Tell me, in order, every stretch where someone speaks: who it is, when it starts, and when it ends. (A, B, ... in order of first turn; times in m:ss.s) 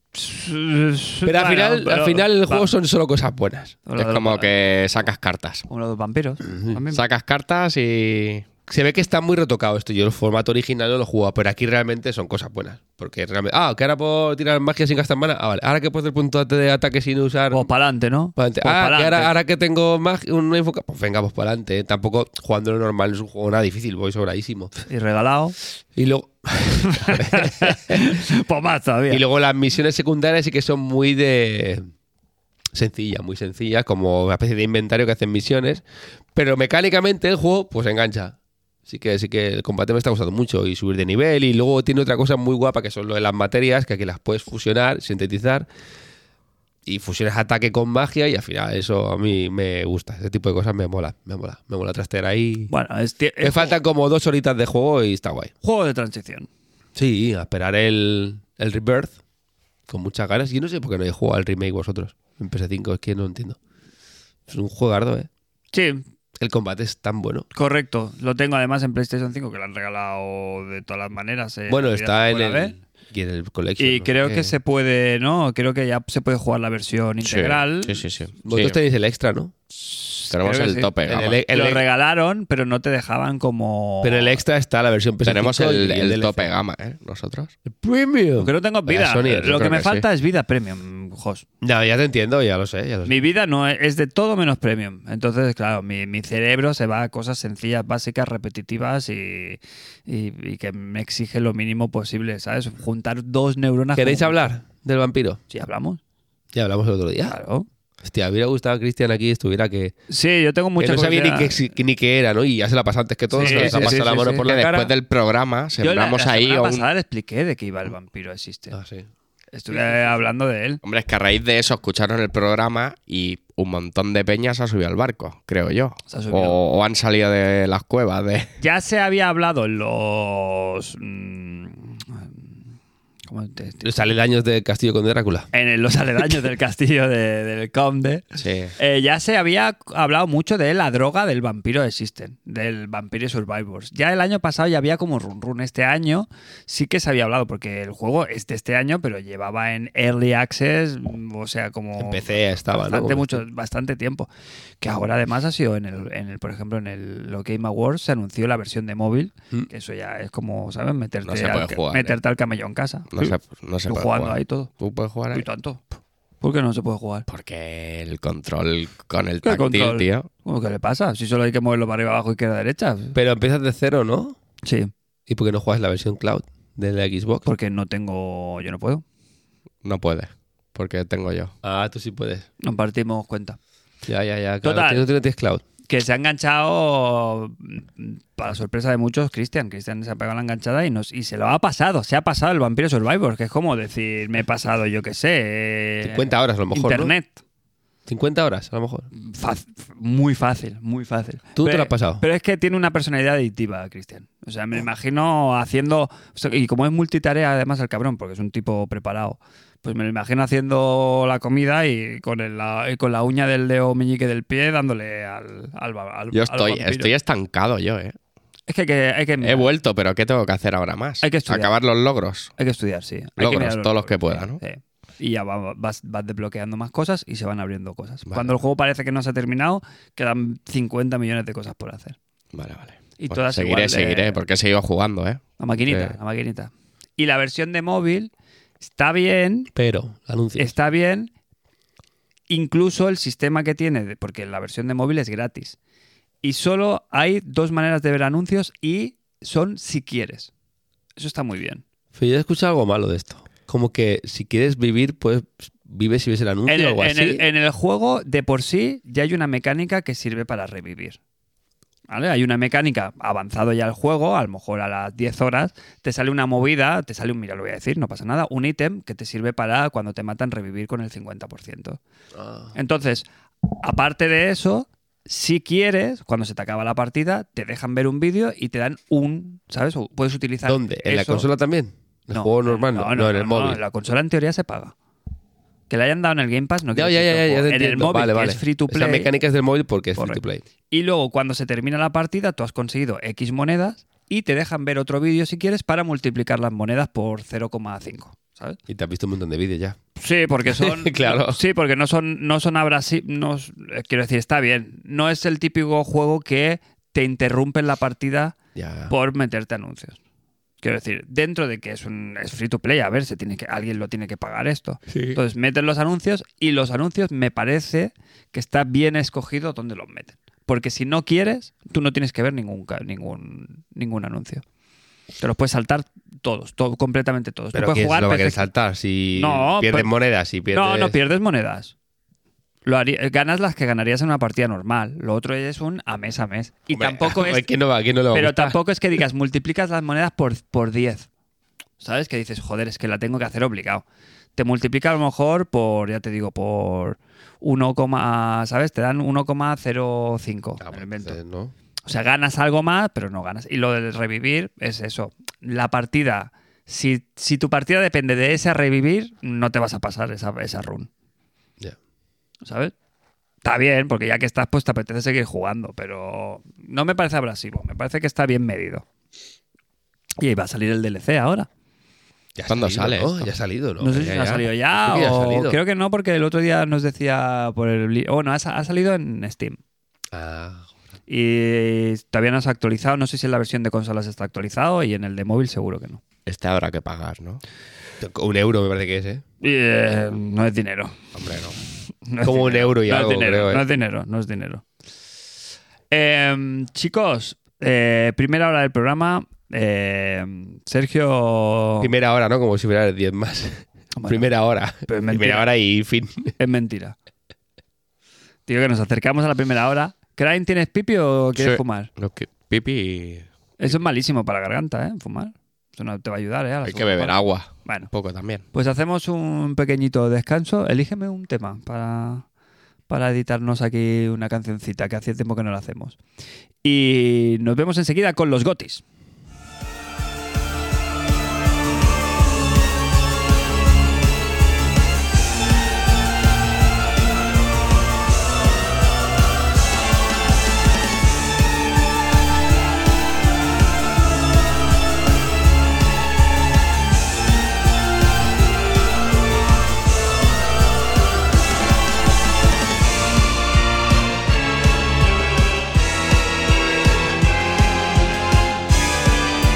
0:00.1-0:02.7 A
0:01.2-0:03.8 B
0:03.8-0:04.8 A
0:04.0-0:05.6 C
0:05.7-0:07.0 A
0:06.5-0:06.7 B
0:06.9-0:08.4 C
0:08.7-0:17.6 B
0:17.5-0:19.3 A
0:18.4-0:24.7 B
0:24.9-0:25.6 A
0:26.0-0:28.1 B
0:26.8-0:29.2 A
0:29.1-0:31.9 B
0:32.7-0:35.8 B
0:36.3-0:38.3 B
0:38.9-0:45.7 B
0:46.8-0:52.7 B
0:52.7-0:53.8 A
0:53.4-0:55.5 B
0:55.6-0:56.5 A
0:57.0-0:59.1 B
0:59.9-1:03.6 B
1:04.5-1:05.3 B
1:05.7-1:06.0 A
1:06.4-1:07.4 B
1:07.5-1:12.7 A
1:11.7-1:14.5 B
1:13.8-1:18.0 A
1:17.2-1:18.8 C
1:18.4-1:19.5 B
1:19.7-1:24.4 A
1:20.3-1:21.4 C
1:21.0-1:21.8 B
1:24.0-1:26.5 B
1:25.2-1:27.5 C
1:27.6-1:29.6 B
1:28.4-1:31.4 A
1:29.3-1:30.0 C
1:31.6-1:33.2 B
1:33.1-1:44.4 A
1:44.0-1:45.4 B
1:45.5-1:46.0 A
1:46.5-1:47.4 B
1:47.2-1:47.6 A
1:48.0-1:49.9 B
1:50.1-1:51.6 A
1:50.8-1:54.9 B
1:53.3-1:54.4 A
1:53.4-1:56.9 C
1:55.8-1:58.8 A
1:58.7-1:59.0 B
1:59.5-2:00.8 A
2:00.8-2:08.5 C
2:06.1-2:06.6 A
2:08.6-2:12.3 A
2:13.3-2:14.1 A
2:13.8-2:15.5 B
2:15.5-2:18.2 A
2:18.4-2:18.7 C
2:18.8-2:34.3 A
2:32.0-2:33.4 B
2:34.8-2:44.7 A
2:41.2-2:42.2 C
2:43.1-2:45.4 C
2:45.3-2:45.8 A
2:46.4-2:47.2 A
2:47.3-2:50.3 C
2:49.4-2:53.2 A
2:53.1-2:54.4 B
2:54.6-2:54.9 A
2:55.3-2:57.4 B
2:57.4-2:59.0 A
2:59.8-3:01.5 C
3:01.6-3:02.5 B
3:02.6-3:03.6 A
3:04.1-3:05.6 B
3:04.6-3:05.0 A
3:05.9-3:17.4 A
3:16.0-3:17.1 B
3:18.1-3:19.1 B
3:19.2-3:37.1 A
3:21.6-3:22.2 B
3:36.3-3:38.2 C
3:38.7-3:39.7 A
3:39.4-3:42.5 C
3:41.2-3:41.7 A
3:42.6-3:52.2 A
3:43.4-3:44.6 C
3:48.3-3:48.6 C
3:52.5-3:56.2 C
3:53.2-3:54.4 A
3:55.6-3:59.7 A
3:59.7-4:00.7 B
4:00.6-4:01.3 A
4:02.5-4:05.8 A
4:06.4-4:10.5 A
4:11.2-4:11.8 A
4:12.1-4:17.4 B
4:16.7-4:21.2 A
4:22.1-4:32.0 A
4:32.4-4:32.7 B
4:32.7-4:33.2 A
4:33.8-4:41.5 A
4:40.6-4:43.8 B
4:42.3-4:44.9 A
4:45.9-4:49.3 A
4:46.9-4:50.6 B
4:50.2-4:58.8 A
4:58.9-5:00.0 B
5:00.2-5:08.5 A
5:00.7-5:01.6 B
5:08.8-5:09.1 B
5:09.1-5:10.2 A
5:10.8-5:24.6 A
5:15.1-5:15.4 B
5:25.4-5:28.7 A
5:27.7-5:31.2 B
5:29.3-5:30.1 A
5:30.7-5:31.9 A
5:32.8-5:37.6 A
5:36.9-5:38.8 B
5:38.3-5:41.3 A
5:42.0-5:44.0 A
5:44.6-5:51.4 A
5:50.8-5:51.7 B
5:52.0-6:01.1 A
6:02.6-6:02.9 A
6:03.6-6:09.0 A
6:10.4-6:11.7 A
6:12.6-6:14.4 B
6:12.7-6:13.5 C
6:14.0-6:19.8 A
6:14.2-6:14.6 C
6:15.0-6:15.8 B
6:20.3-6:20.9 B
6:21.3-6:26.2 A
6:26.4-6:27.6 C
6:28.2-6:29.4 B
6:29.6-6:31.2 A
6:31.3-6:31.8 C
6:32.3-6:34.8 A
6:32.4-6:33.8 B
6:36.1-6:42.1 A
6:42.0-6:46.5 B
6:44.2-6:44.4 A
6:45.0-6:45.6 A
6:46.6-6:47.2 A
6:48.7-6:52.1 A
6:51.6-6:53.9 C
6:53.8-6:58.1 A
6:56.8-6:58.6 C
6:58.7-7:02.4 A
7:03.1-7:06.2 A
7:06.8-7:09.0 A